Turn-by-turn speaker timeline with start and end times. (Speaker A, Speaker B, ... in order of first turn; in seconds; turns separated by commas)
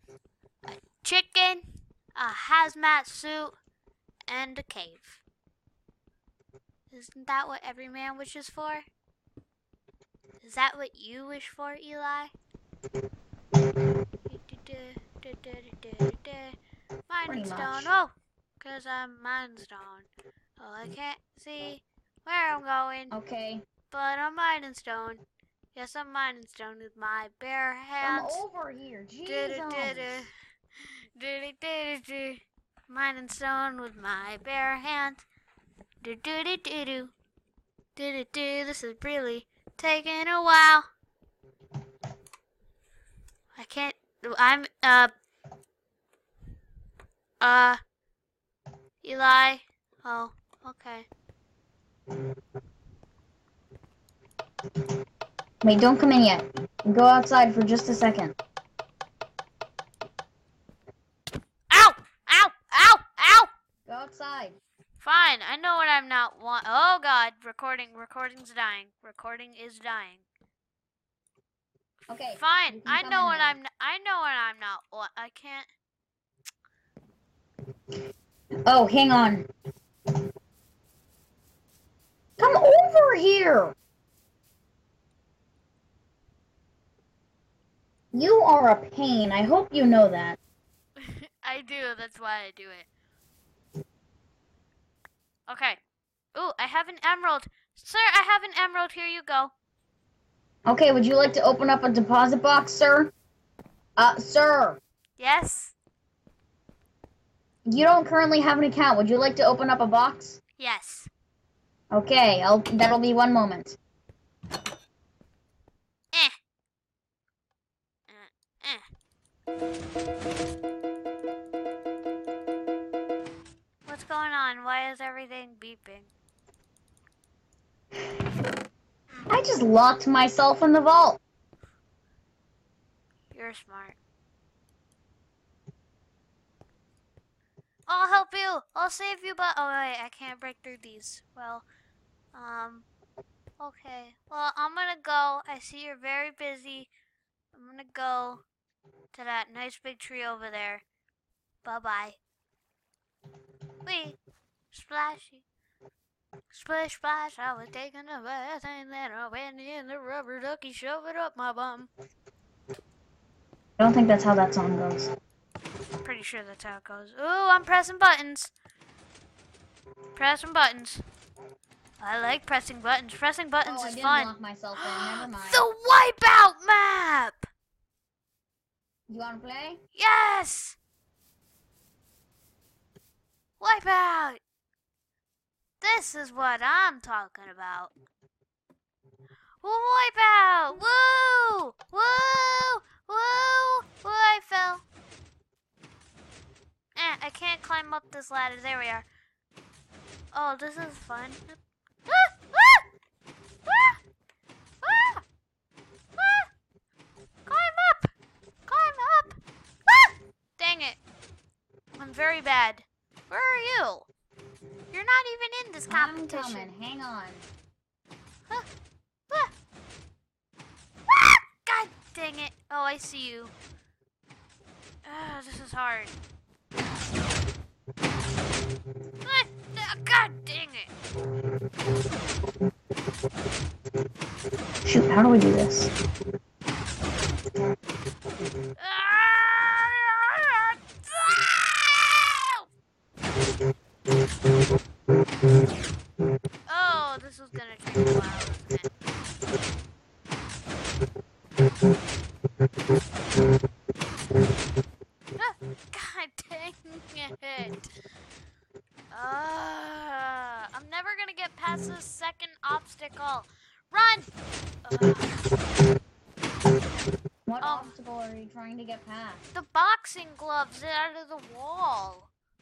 Speaker A: 0.7-3.6, Speaker A: 4.3-5.2, Speaker A: 6.9-8.9, Speaker A: 10.4-12.3, Speaker A: 14.3-16.6, Speaker A: 17.1-20.1, Speaker B: 17.3-17.9, Speaker A: 20.6-23.1, Speaker B: 23.1-23.6, Speaker A: 23.9-25.2, Speaker A: 25.8-28.4, Speaker B: 28.0-30.3, Speaker A: 29.2-30.3, Speaker A: 30.8-35.2, Speaker A: 36.0-37.1, Speaker A: 38.0-40.9, Speaker A: 43.5-45.1, Speaker A: 47.4-47.8, Speaker A: 49.0-51.1, Speaker B: 55.6-58.4, Speaker A: 61.7-63.5, Speaker B: 63.9-64.6, Speaker A: 65.0-70.2, Speaker B: 72.1-73.6, Speaker A: 72.3-75.7, Speaker B: 78.7-79.5, Speaker B: 82.4-83.8, Speaker B: 88.1-90.4, Speaker A: 91.0-92.9, Speaker A: 95.5-95.8, Speaker A: 96.3-99.5, Speaker B: 100.7-103.1, Speaker B: 104.0-104.8, Speaker A: 105.2-105.8, Speaker B: 107.7-110.4, Speaker A: 110.6-111.1, Speaker B: 111.9-113.8, Speaker A: 118.1-118.8, Speaker A: 123.9-126.1, Speaker B: 129.3-131.2, Speaker A: 133.3-134.0, Speaker A: 137.9-141.7, Speaker A: 142.3-142.9, Speaker A: 143.6-146.9, Speaker A: 147.5-148.4, Speaker A: 149.1-150.8, Speaker A: 151.6-152.2, Speaker A: 153.8-154.2, Speaker A: 154.7-155.4, Speaker A: 156.5-161.9, Speaker B: 163.8-165.1, Speaker A: 166.0-168.5, Speaker A: 170.2-171.0, Speaker A: 172.0-177.4, Speaker B: 173.6-175.7, Speaker B: 179.1-179.8, Speaker A: 180.0-180.8, Speaker A: 183.6-184.4, Speaker A: 185.8-187.9, Speaker A: 189.6-194.8, Speaker A: 196.9-199.1, Speaker A: 200.3-202.8, Speaker A: 203.7-204.0, Speaker A: 204.8-205.2, Speaker A: 206.2-206.5, Speaker A: 207.5-208.1, Speaker A: 208.7-211.0, Speaker A: 212.0-214.1, Speaker A: 214.9-216.7, Speaker B: 215.9-217.4, Speaker A: 221.1-223.5, Speaker A: 225.0-226.1, Speaker A: 229.2-230.9, Speaker B: 234.8-235.9, Speaker A: 238.8-242.7, Speaker A: 246.7-248.9, Speaker A: 255.4-257.9, Speaker A: 259.1-264.3, Speaker A: 264.9-265.4, Speaker B: 267.5-269.4, Speaker A: 267.6-267.9, Speaker A: 269.5-272.3